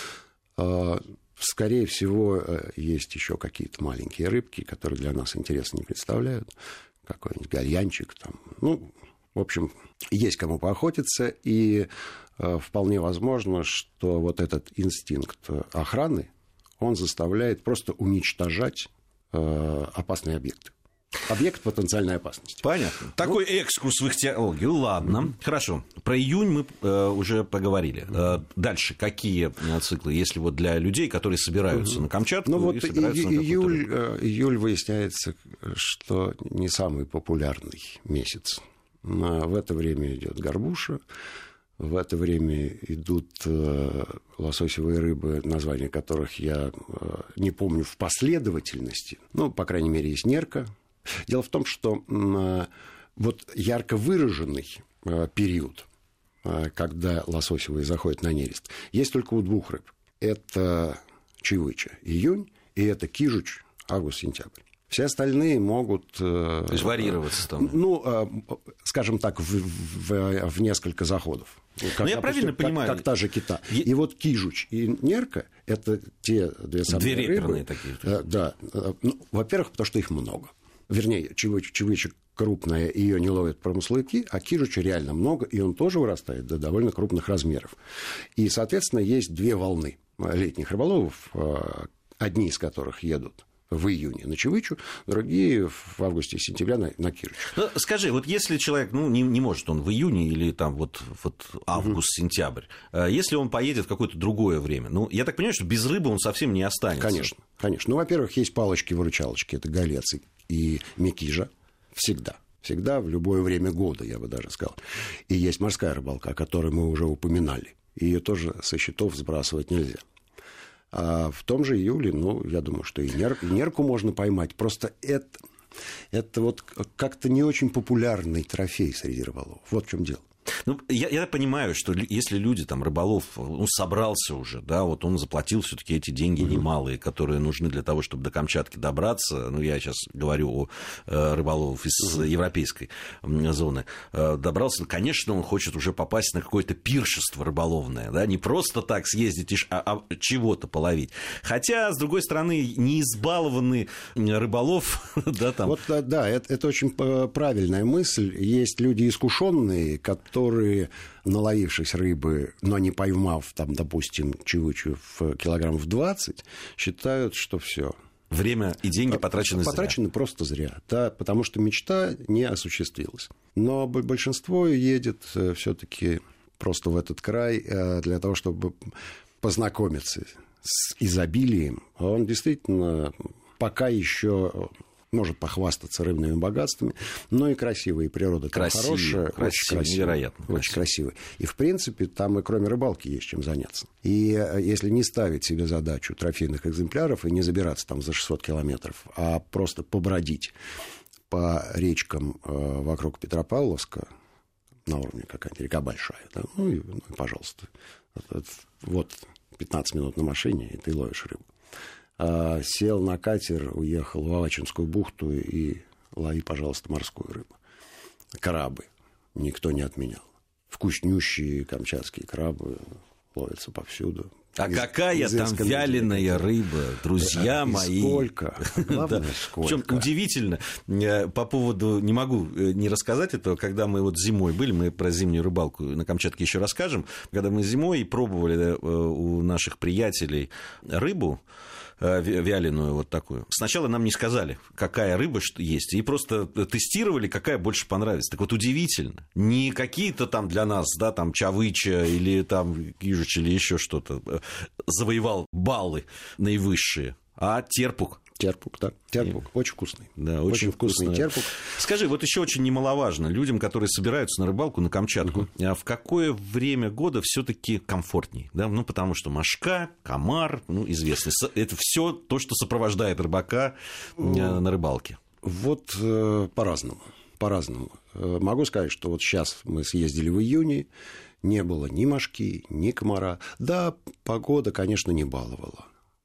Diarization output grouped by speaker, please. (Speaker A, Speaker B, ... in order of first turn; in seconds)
Speaker A: 0.6-6.5, 7.0-20.7, 21.3-22.6, 32.5-41.0, 41.8-50.7, 51.2-55.9, 56.4-87.7, 88.3-97.6, 107.0-114.8, 115.3-120.0, 120.9-125.4, 126.1-130.2, 155.6-167.9, 169.1-200.5, 201.3-204.1, 204.8-211.4, 212.2-217.5, 218.4-226.5, 227.2-230.1, 258.4-261.5, 275.4-280.9, 281.4-285.9
Speaker B: 22.6-33.9, 66.7-67.8, 72.0-73.1, 76.9-78.1, 97.5-107.3, 130.6-155.8, 168.3-170.0, 188.5-190.8, 224.6-241.4, 242.0-258.2, 260.2-275.2